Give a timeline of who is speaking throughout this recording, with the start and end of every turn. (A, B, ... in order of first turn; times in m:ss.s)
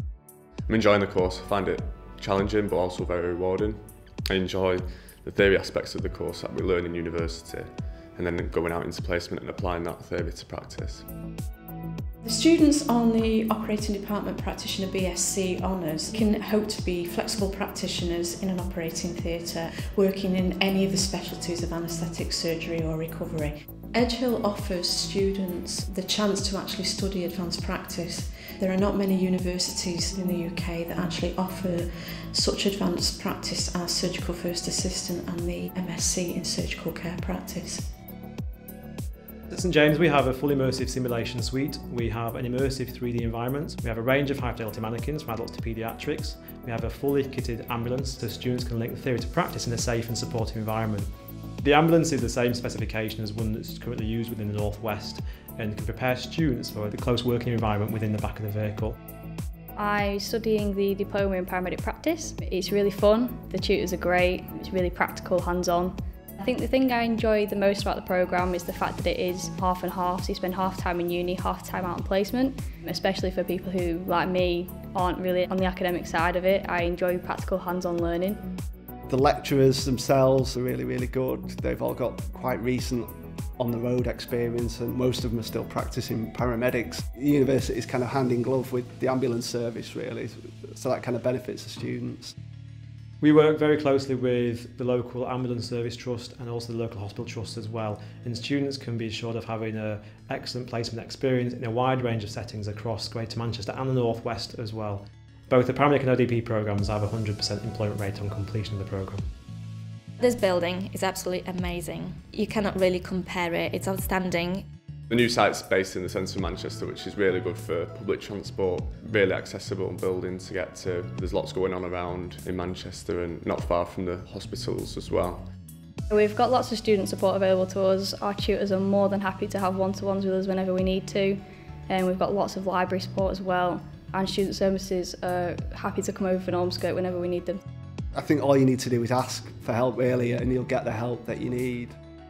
0:00.7-0:11.1 A
0:12.2-0:37.9 B
0:39.5-0:51.1 C
0:51.6-0:59.0 C
0:59.8-1:18.4 D
1:19.1-1:32.4 E
1:33.2-1:49.2 C
1:50.2-1:54.7 F
1:55.1-2:05.5 A
2:06.1-2:17.6 D
2:18.1-2:22.0 E